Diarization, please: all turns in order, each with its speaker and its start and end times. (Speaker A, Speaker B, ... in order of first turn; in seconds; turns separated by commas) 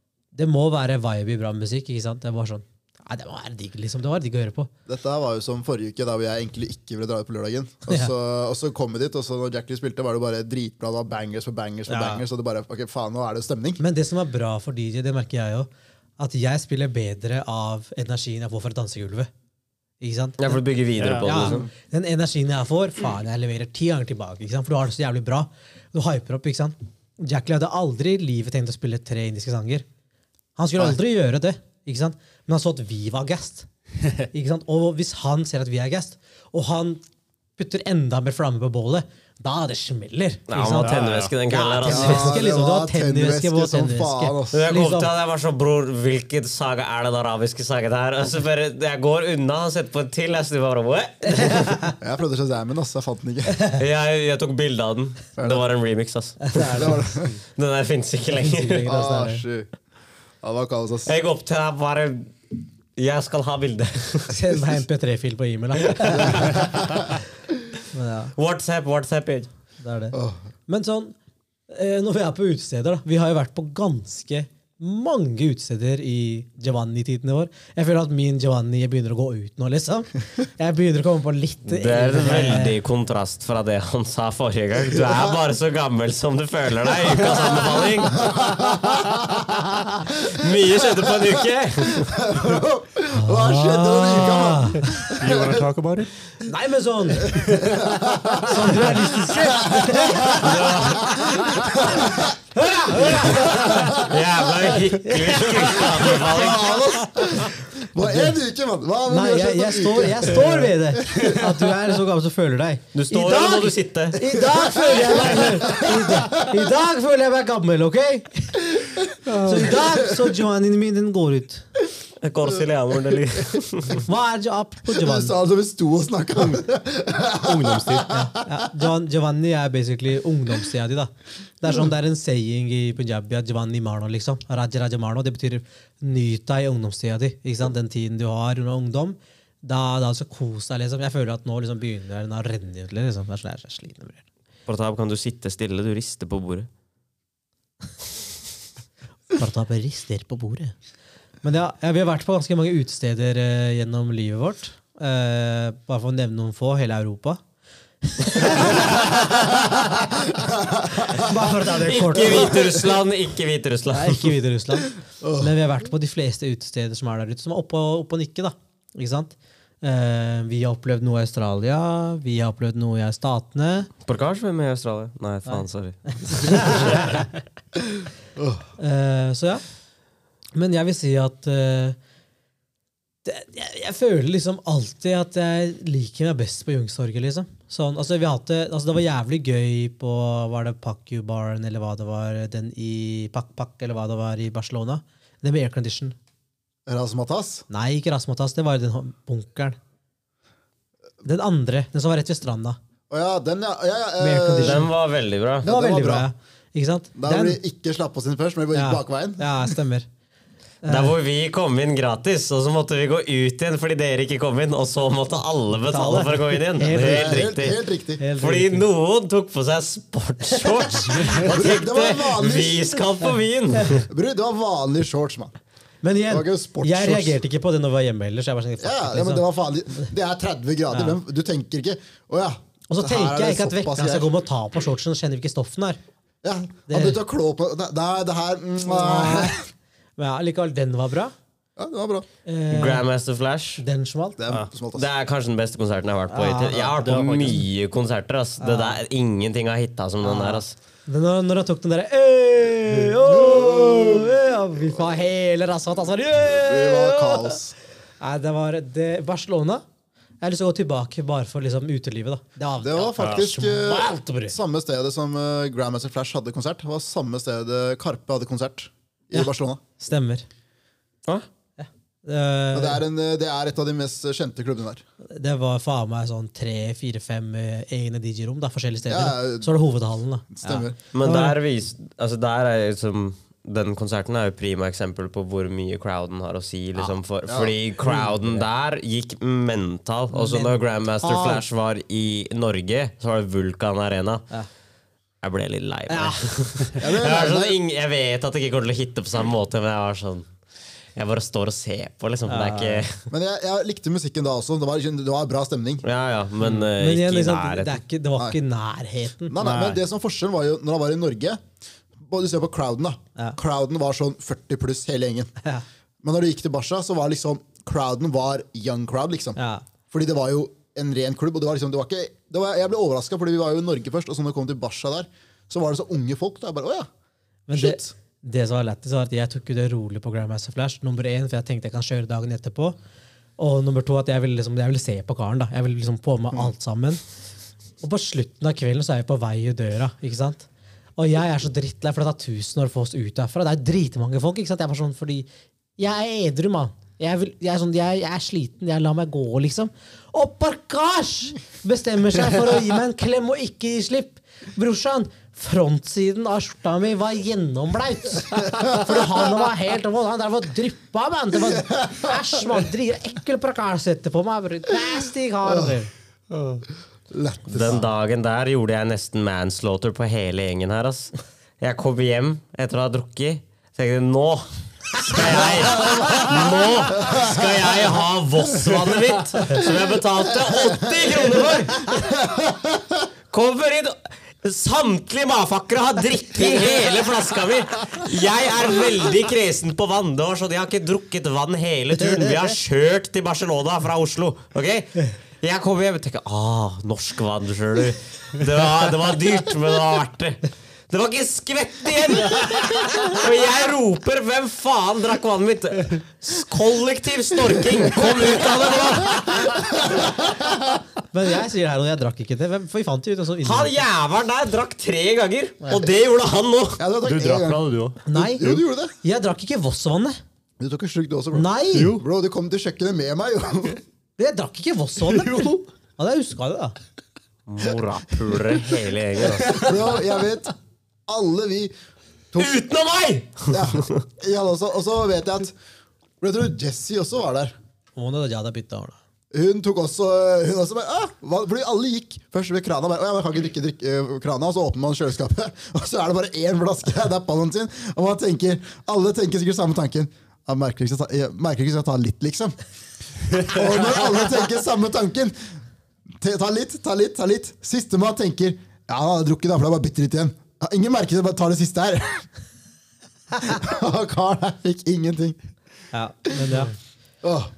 Speaker A: 0.3-4.7, Speaker B: 4.9-13.8, Speaker A: 11.9-12.2, Speaker A: 13.8-19.3, Speaker A: 20.0-20.6, Speaker C: 20.4-21.7, Speaker D: 21.0-21.5, Speaker A: 21.2-29.8, Speaker B: 21.4-21.7, Speaker A: 30.6-33.7, Speaker A: 34.3-37.0, Speaker A: 37.6-45.1, Speaker C: 40.5-42.3, Speaker D: 40.8-41.3, Speaker B: 41.8-44.6, Speaker C: 44.5-51.7, Speaker A: 51.3-51.9, Speaker B: 52.0-53.6, Speaker C: 53.7-57.0, Speaker B: 55.4-55.6, Speaker A: 56.4-57.1, Speaker B: 56.7-57.4, Speaker C: 57.5-58.9, Speaker A: 58.3-59.4, Speaker B: 58.8-59.7, Speaker B: 60.4-61.1, Speaker C: 61.0-64.3, Speaker A: 64.3-66.7, Speaker C: 65.9-66.7, Speaker A: 67.9-68.3, Speaker C: 68.3-69.5, Speaker A: 69.8-71.1, Speaker B: 70.1-70.4, Speaker A: 71.7-82.8, Speaker C: 81.7-88.4, Speaker B: 87.3-90.3, Speaker C: 90.1-92.3, Speaker B: 90.8-91.2, Speaker B: 91.9-95.6, Speaker A: 93.1-95.1, Speaker D: 95.1-96.1, Speaker A: 96.4-97.8, Speaker B: 97.2-102.3, Speaker D: 97.5-98.4, Speaker A: 98.3-102.0, Speaker C: 100.2-101.6, Speaker A: 102.5-104.0, Speaker B: 102.9-104.2, Speaker C: 103.3-107.0, Speaker A: 105.0-106.6, Speaker B: 105.9-111.3, Speaker A: 108.0-108.3, Speaker A: 109.1-121.6, Speaker C: 112.9-114.2, Speaker B: 114.5-116.6, Speaker C: 115.0-115.8, Speaker B: 119.2-120.3, Speaker C: 122.2-124.0, Speaker A: 123.9-125.3, Speaker B: 124.9-128.6, Speaker D: 127.3-128.2, Speaker A: 128.1-144.2, Speaker C: 144.7-146.7, Speaker A: 149.3-150.7, Speaker A: 151.4-157.4, Speaker A: 158.0-159.5, Speaker B: 159.3-161.3, Speaker A: 161.2-162.7, Speaker C: 161.7-164.3, Speaker A: 163.9-173.9, Speaker B: 165.2-165.5, Speaker C: 174.1-177.2, Speaker A: 175.5-177.2, Speaker B: 178.4-178.6, Speaker A: 178.8-179.6, Speaker A: 180.5-182.0, Speaker A: 183.2-196.2, Speaker B: 196.9-197.6, Speaker A: 197.7-199.8, Speaker A: 201.2-202.8, Speaker B: 203.1-204.9, Speaker A: 204.2-204.9, Speaker C: 204.6-205.7, Speaker B: 205.6-206.3, Speaker A: 205.6-207.6, Speaker B: 207.2-209.7, Speaker A: 208.7-210.1, Speaker A: 210.8-211.1, Speaker C: 210.8-217.8, Speaker A: 215.9-217.5, Speaker B: 216.9-218.2, Speaker A: 218.2-218.8, Speaker C: 218.4-224.1, Speaker A: 220.8-221.4, Speaker B: 221.3-222.8, Speaker B: 224.0-225.6, Speaker A: 226.0-229.4, Speaker B: 226.3-227.4, Speaker B: 228.8-234.3, Speaker A: 230.9-231.2, Speaker A: 232.9-236.0, Speaker B: 236.4-239.6, Speaker A: 236.9-237.2, Speaker A: 238.8-239.6, Speaker A: 240.2-241.3, Speaker B: 241.8-242.2, Speaker A: 242.4-243.0, Speaker C: 242.7-243.8, Speaker A: 243.8-244.4, Speaker B: 244.4-245.1, Speaker C: 244.9-250.7, Speaker A: 246.3-247.0, Speaker D: 246.9-247.7, Speaker A: 248.6-249.0, Speaker A: 250.2-257.6, Speaker B: 253.2-254.3, Speaker B: 256.3-257.7, Speaker A: 258.2-259.8, Speaker A: 260.4-264.6, Speaker B: 262.8-269.8, Speaker A: 269.3-270.4, Speaker A: 271.8-273.0, Speaker B: 272.7-275.0, Speaker A: 275.3-281.6, Speaker B: 279.1-279.7, Speaker B: 280.5-281.0, Speaker C: 281.1-294.5, Speaker B: 287.5-287.8, Speaker A: 290.3-291.6, Speaker C: 295.4-300.5, Speaker A: 296.1-296.6, Speaker B: 297.0-297.8, Speaker C: 301.1-303.2, Speaker A: 302.5-303.1, Speaker B: 303.3-306.0, Speaker C: 306.0-308.0, Speaker A: 306.7-309.6, Speaker B: 309.5-311.6, Speaker D: 309.6-310.0, Speaker B: 312.2-315.5, Speaker B: 316.2-319.6, Speaker A: 319.6-319.8, Speaker B: 320.1-327.1, Speaker A: 327.7-332.9, Speaker B: 327.7-328.1, Speaker A: 333.6-337.2, Speaker A: 338.0-366.1, Speaker B: 361.7-362.4, Speaker B: 367.3-368.1, Speaker C: 367.7-382.2, Speaker B: 382.2-383.1, Speaker C: 383.5-410.0, Speaker B: 409.4-411.0, Speaker A: 411.3-414.0, Speaker C: 413.6-417.0, Speaker B: 417.0-419.1, Speaker D: 417.2-418.8, Speaker A: 418.2-420.4, Speaker B: 420.8-424.0, Speaker A: 421.5-422.2, Speaker D: 421.9-422.2, Speaker A: 424.4-426.9, Speaker C: 427.7-429.8, Speaker B: 429.6-430.7, Speaker B: 431.3-431.9, Speaker C: 432.6-434.2, Speaker B: 433.7-435.7, Speaker B: 436.4-437.7, Speaker A: 438.1-439.2, Speaker B: 439.5-452.7, Speaker B: 453.5-455.6, Speaker B: 456.4-462.4, Speaker B: 463.6-465.6, Speaker A: 466.1-466.9, Speaker B: 467.4-467.7